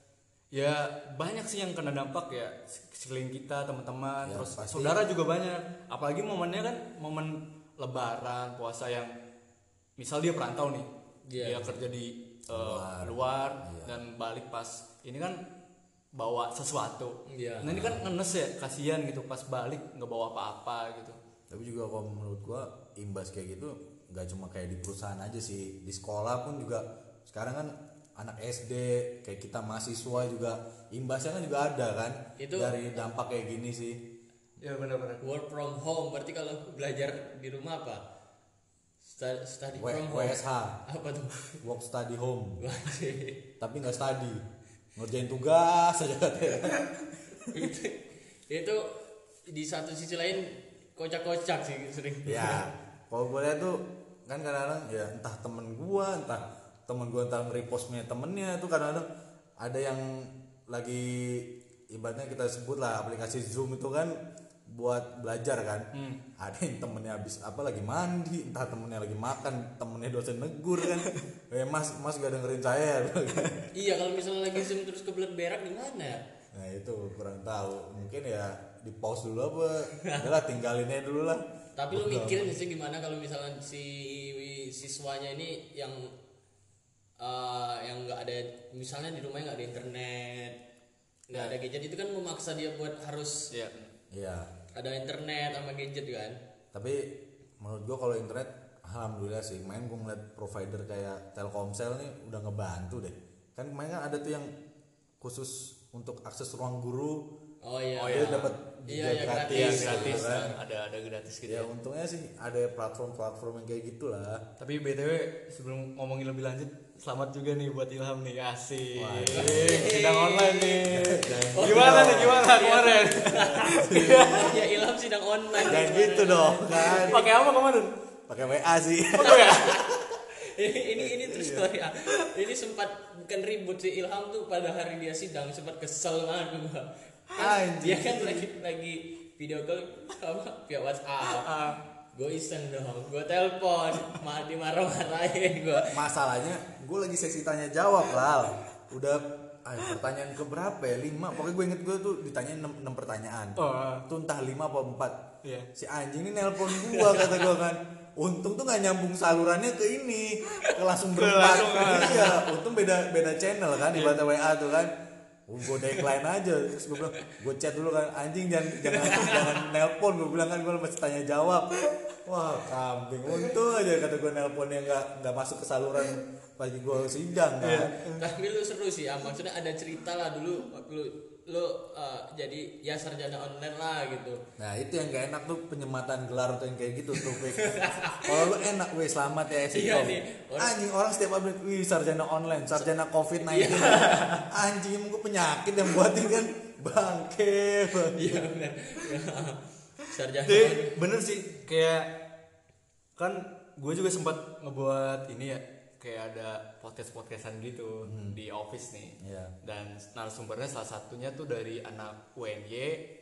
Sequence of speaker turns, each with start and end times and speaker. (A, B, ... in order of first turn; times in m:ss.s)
0:00.5-0:09.1 A
0:04.2-0:05.0 B
0:10.0-0:15.4 A
0:11.3-0:11.8 C
0:12.5-0:14.0 B
0:16.1-0:21.2 A
0:17.3-0:17.8 C
0:17.6-0:18.1 B
0:21.5-0:34.0 B
0:32.4-0:32.8 C
0:34.6-0:35.2 A
0:35.2-0:38.0 C
0:39.0-0:41.6 C
0:39.8-0:40.8 B
0:41.6-0:42.6 B
0:42.6-0:43.4 C
0:43.6-0:44.4 B
0:45.0-0:47.0 B
0:47.5-0:52.7 C
0:52.2-0:59.1 B
0:59.6-1:13.7 B
1:05.9-1:06.2 A
1:13.7-1:16.2 C
1:16.5-1:22.5 B
1:20.0-1:20.3 C
1:21.8-1:26.1 C
1:27.2-1:30.6 C
1:31.3-1:33.5 C
1:33.5-1:33.9 A
1:34.1-1:34.5 B
1:34.8-1:36.4 C
1:36.7-1:44.5 B
1:45.2-1:47.3 B
1:47.6-1:50.6 C
1:48.0-1:48.5 A
1:48.0-1:50.5 B
1:49.5-1:51.7 A
1:51.5-1:54.4 B
1:54.6-2:04.6 A
1:59.0-1:59.9 B
1:59.3-2:07.3 C
2:00.9-2:02.5 B
2:03.6-2:04.6 B
2:05.6-2:07.2 B
2:06.8-2:07.9 A
2:08.3-2:10.2 B
2:09.2-2:09.7 A
2:09.2-2:21.6 C
2:11.0-2:11.7 B
2:17.4-2:18.5 B
2:21.2-2:21.8 A
2:22.1-2:26.0 C
2:25.9-2:35.2 B
2:33.6-2:34.0 A
2:35.4-2:35.7 A
2:35.8-2:44.9 B
2:41.1-2:42.4 A
2:42.1-2:42.4 C
2:43.9-2:44.2 A
2:45.5-2:57.9 B
2:48.9-2:49.4 A
2:49.2-2:49.4 C
2:57.6-2:58.2 A
2:58.1-3:04.4 C
3:04.6-3:18.5 B
3:07.2-3:08.5 C
3:09.7-3:10.8 C
3:13.4-3:14.4 C
3:13.8-3:14.4 A
3:18.1-3:21.0 C
3:20.4-3:22.2 A
3:23.2-3:33.1 A
3:28.0-3:28.4 B
3:29.2-3:29.5 B